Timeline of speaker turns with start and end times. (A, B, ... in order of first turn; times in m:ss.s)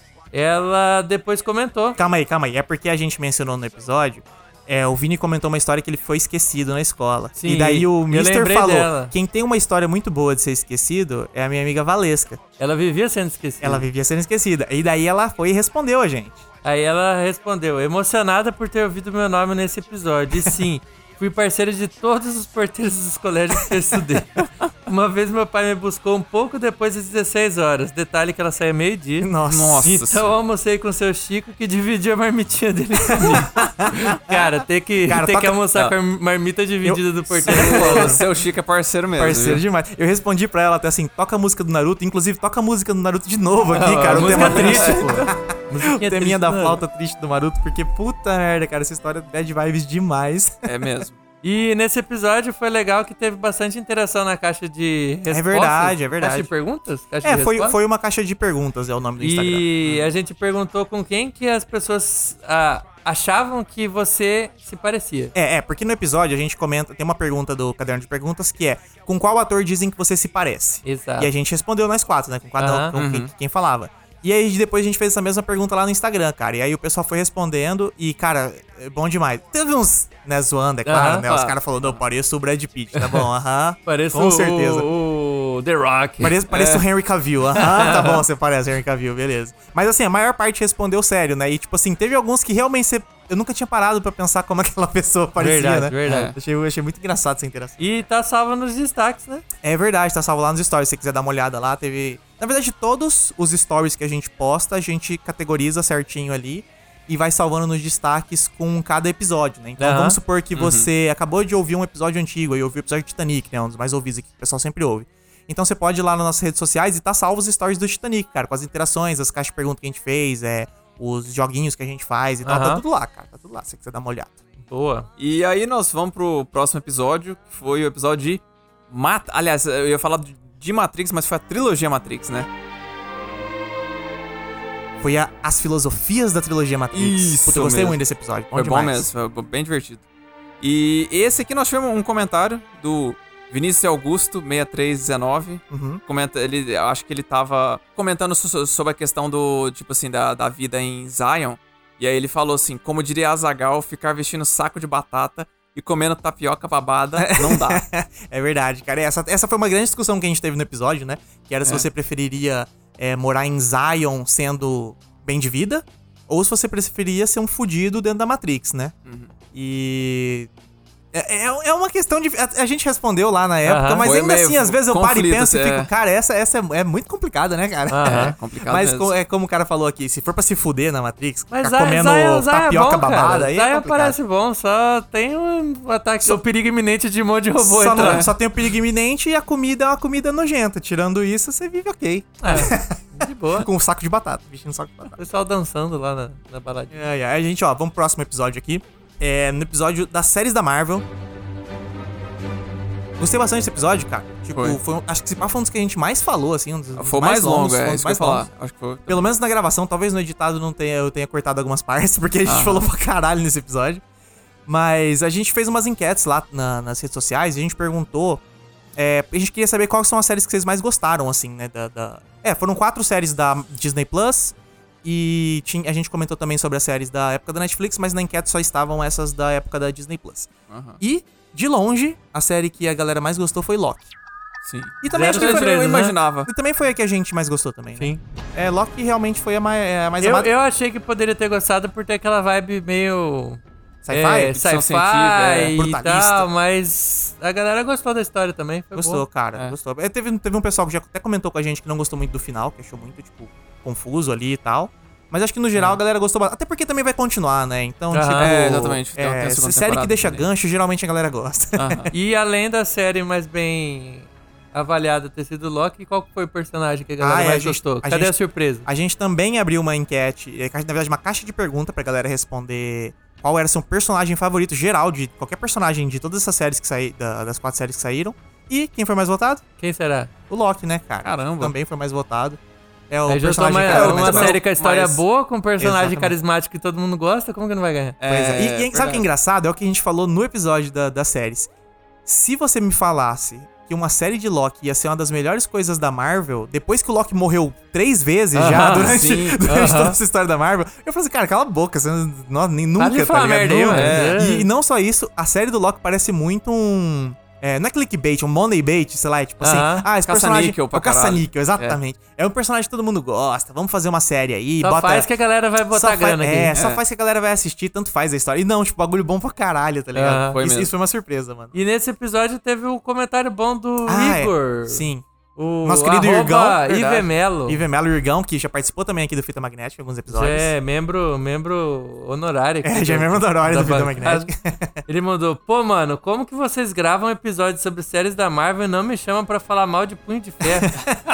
0:00.3-0:02.0 A
0:02.0-0:12.4 B
0:07.4-0:09.1 A
0:12.6-0:13.9 A
0:13.6-0:16.4 B
0:16.6-0:29.3 A
0:29.2-0:29.9 B
0:29.5-0:30.3 C
0:29.8-0:38.2 A
0:33.1-0:34.4 B
0:35.0-0:35.6 B
0:36.8-0:38.2 B
0:37.4-0:39.6 C
0:39.2-0:50.9 B
0:43.7-0:46.8 A
0:43.9-0:45.2 C
0:50.6-0:51.2 C
0:51.4-0:57.8 A
0:55.3-0:56.5 B
0:57.2-0:59.7 B
0:59.2-1:05.3 A
1:05.3-1:24.9 B
1:10.8-1:11.3 A
1:12.6-1:13.0 A
1:12.9-1:13.3 C
1:20.8-1:21.2 A
1:21.2-1:22.0 C
1:23.8-1:26.4 A
1:26.2-1:37.9 B
1:26.5-1:26.8 C
1:27.5-1:28.2 A
1:35.4-1:36.3 A
1:36.0-1:36.3 C
1:37.8-1:39.4 A
1:39.6-2:04.4 B
1:49.8-1:50.2 A
1:50.5-1:50.9 C
2:02.4-2:02.8 A
2:04.6-2:05.1 A
2:05.2-2:12.5 C
2:15.0-2:19.1 B
2:16.9-2:18.0 C
2:18.5-2:20.0 C
2:20.6-2:37.8 C
2:25.7-2:26.0 B
2:37.1-2:48.9 B
2:49.0-2:49.3 C
2:49.5-2:50.5 B
2:51.1-3:04.2 B
2:53.6-2:54.1 A
2:54.0-2:55.9 C
2:57.9-2:58.3 A
2:58.0-2:59.1 C
3:01.5-3:08.3 A
3:07.6-3:15.2 B
3:08.0-3:08.3 C
3:12.4-3:13.7 A
3:15.1-3:17.0 A
3:16.9-3:21.1 B
3:23.2-3:28.5 B
3:24.5-3:24.8 C
3:27.0-3:29.3 C
3:29.1-3:34.0 B
3:32.4-3:32.8 C
3:34.7-3:38.4 B
3:39.0-3:54.1 B
3:50.7-3:51.0 C
3:54.6-3:56.5 C
3:55.0-3:55.7 B
3:55.1-3:56.1 A
3:56.4-4:00.5 B
3:58.0-3:58.2 A
4:00.2-4:03.6 A
4:04.0-4:04.6 B
4:04.1-4:09.2 A
4:04.6-4:05.7 C
4:05.7-4:06.5 B
4:08.9-4:22.1 B
4:18.1-4:18.5 A
4:18.4-4:20.4 C
4:21.8-4:22.1 C
4:22.1-4:28.8 A
4:27.2-4:39.6 B
4:39.8-4:40.3 A
4:40.5-4:44.6 B
4:41.2-4:41.7 C
4:43.3-4:48.2 A
4:43.8-4:45.2 C
4:45.8-4:46.3 B
4:48.2-4:49.2 C
4:48.3-4:51.7 B
4:52.2-5:15.3 B
4:58.6-4:59.6 C
4:58.6-5:00.2 A
5:03.0-5:04.7 A
5:03.9-5:04.4 C
5:09.6-5:10.0 A
5:10.3-5:12.0 C
5:14.8-5:16.7 A
5:15.9-5:21.7 B
5:16.7-5:17.0 C
5:20.1-5:20.6 A
5:20.5-5:20.9 C
5:21.7-5:25.0 A
5:24.1-5:25.2 B
5:25.6-5:27.8 A
5:25.8-5:30.7 B
5:30.3-5:34.5 A
5:32.8-5:35.0 B
5:35.1-5:41.0 A
5:40.8-5:41.2 B